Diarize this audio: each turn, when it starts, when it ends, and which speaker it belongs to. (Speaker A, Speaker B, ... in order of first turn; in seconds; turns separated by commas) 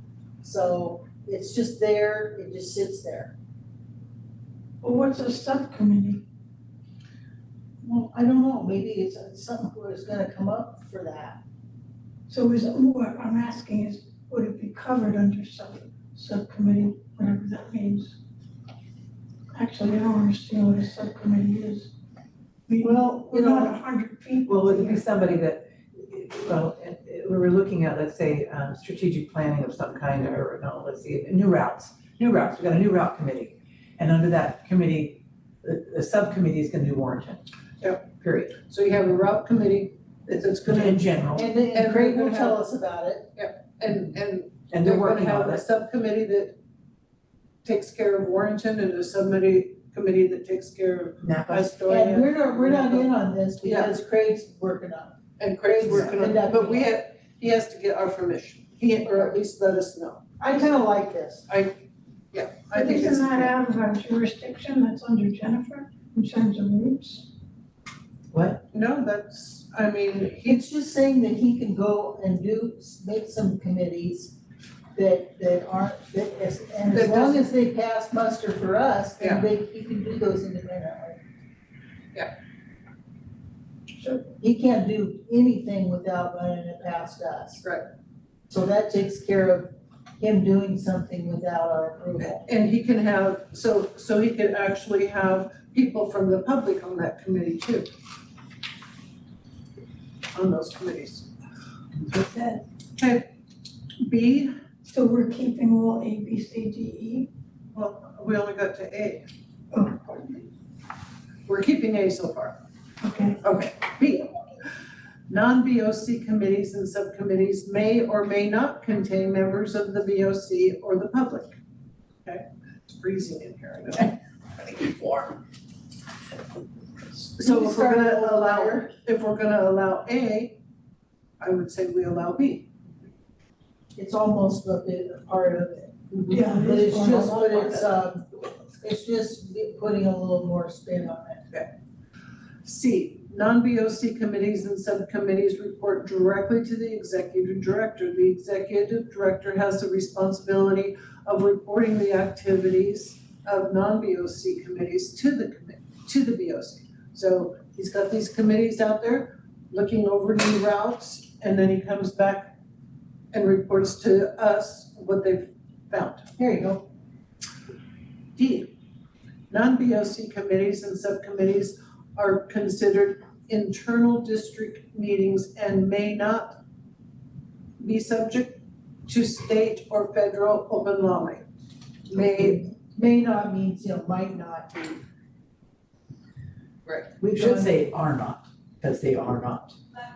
Speaker A: 0.4-3.3, Speaker B: 4.8-6.2, Speaker A: 7.8-11.4, Speaker B: 12.3-18.2, Speaker B: 19.5-21.9, Speaker B: 22.7-25.0, Speaker A: 22.8-23.8, Speaker C: 24.5-37.4, Speaker D: 37.8-38.0, Speaker C: 38.2-38.6, Speaker D: 38.6-41.2, Speaker C: 40.3-41.5, Speaker A: 41.3-43.3, Speaker D: 41.7-42.6, Speaker D: 43.4-46.6, Speaker C: 44.7-45.6, Speaker D: 47.6-53.9, Speaker C: 51.2-51.7, Speaker A: 51.9-57.0, Speaker D: 55.4-60.8, Speaker C: 55.9-56.1, Speaker A: 60.4-61.5, Speaker D: 61.5-61.7, Speaker D: 62.3-63.5, Speaker B: 62.7-67.3, Speaker C: 68.3-68.6, Speaker D: 68.7-70.6, Speaker A: 70.4-74.3, Speaker A: 74.9-81.2, Speaker D: 76.9-77.5, Speaker D: 79.2-79.5, Speaker B: 84.0-84.2, Speaker A: 84.4-87.6, Speaker A: 88.5-92.4, Speaker D: 92.3-97.9, Speaker D: 100.3-101.3, Speaker C: 101.9-102.6, Speaker D: 103.0-103.2, Speaker D: 104.0-104.6, Speaker B: 104.8-107.3, Speaker D: 107.7-109.2, Speaker B: 109.7-110.5, Speaker D: 111.5-112.5, Speaker B: 113.0-113.4, Speaker D: 113.4-114.4, Speaker D: 115.3-121.5, Speaker D: 122.2-125.3, Speaker D: 127.3-130.6, Speaker A: 127.4-128.9, Speaker D: 131.4-132.7, Speaker A: 133.9-138.3, Speaker D: 136.1-136.4, Speaker B: 136.3-137.6, Speaker A: 138.8-141.4, Speaker D: 142.6-162.5, Speaker D: 163.3-166.3, Speaker A: 166.4-166.9, Speaker D: 168.3-168.7, Speaker D: 169.5-176.6, Speaker D: 177.8-181.4, Speaker D: 182.1-182.6, Speaker A: 182.1-185.0, Speaker D: 186.8-187.1, Speaker A: 187.2-187.8, Speaker C: 187.3-189.8